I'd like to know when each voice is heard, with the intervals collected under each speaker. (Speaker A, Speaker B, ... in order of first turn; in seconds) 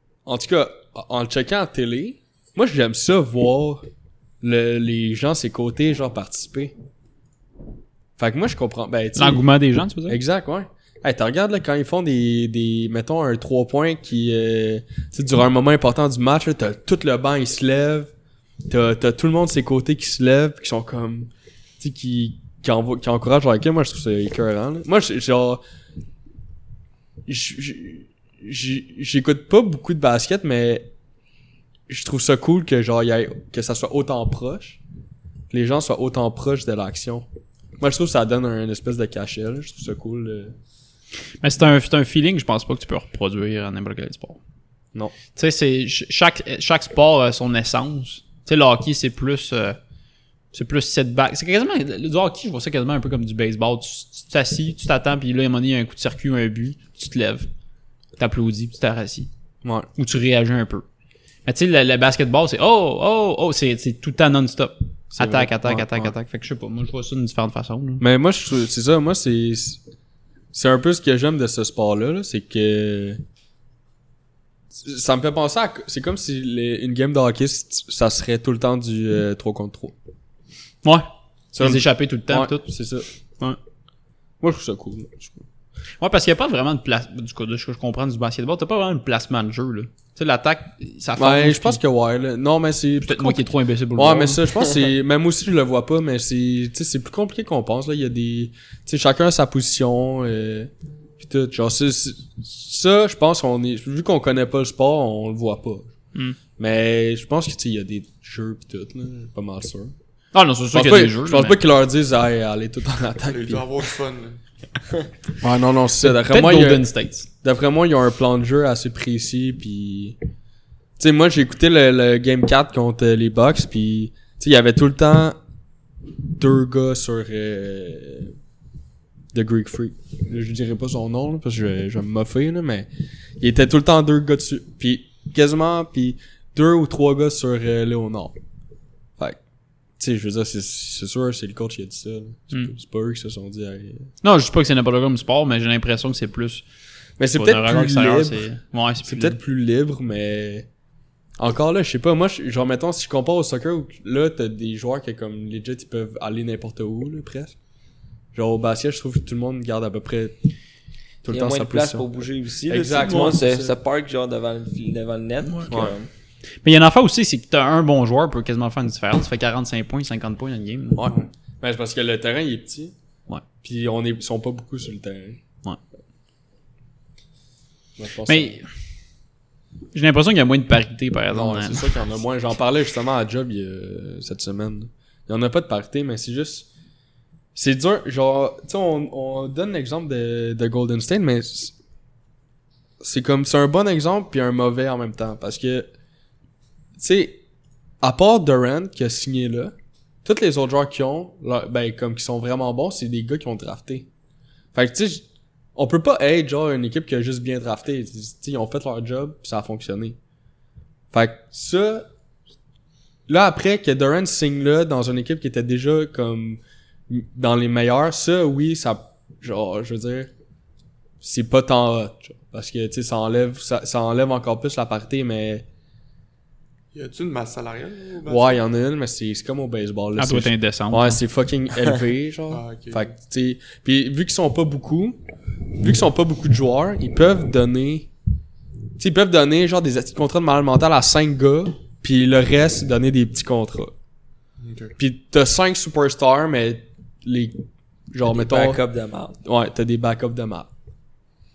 Speaker A: 0.2-3.9, 4.4-6.7, 8.2-9.4, 10.1-18.1, 18.7-25.6, 27.2-30.9, 31.9-34.8, 35.5-37.2, 37.8-40.5, 59.6-59.9, 65.2-66.1, 68.0-69.8, 70.5-73.2, 74.7-79.9, 81.5-83.1, 84.4-85.4, 91.2-105.9, 106.6-109.9, 110.7-113.7, 115.4-116.9, 117.4-120.2, 121.0-125.4, 126.2-128.3, 129.3-138.3, 140.0-144.1, 147.2-148.5, 149.0-150.7, 151.4-157.5, 158.3-160.4, 161.2-163.8, 165.7-165.9, 170.9-172.9, 173.6-175.4, 178.0-178.6, 181.3-186.7, 187.5-191.7, 193.0-195.9, 196.9-197.4, 198.0-204.1, 204.7-210.2, 211.1-212.1, 213.3-220.3, 221.2-225.7, 228.2-235.2, 235.8-238.1, 239.0-243.9, 245.0-248.8, 249.4-250.7
Speaker B: 9.2-10.2, 41.4-44.4, 45.3-49.8, 50.5-57.5, 58.2-59.3, 60.0-60.8, 61.5-68.0, 80.8-82.7, 86.0-91.8, 93.0-94.4, 110.3-111.6, 116.0-117.3, 144.2-146.6, 147.3-149.4, 166.6-171.1, 178.3-178.6, 179.9-181.9, 230.2-231.2
Speaker C: 113.2-114.4, 226.9-228.6, 232.5-233.1, 244.6-244.9
Speaker D: 161.3-166.1, 248.2-249.4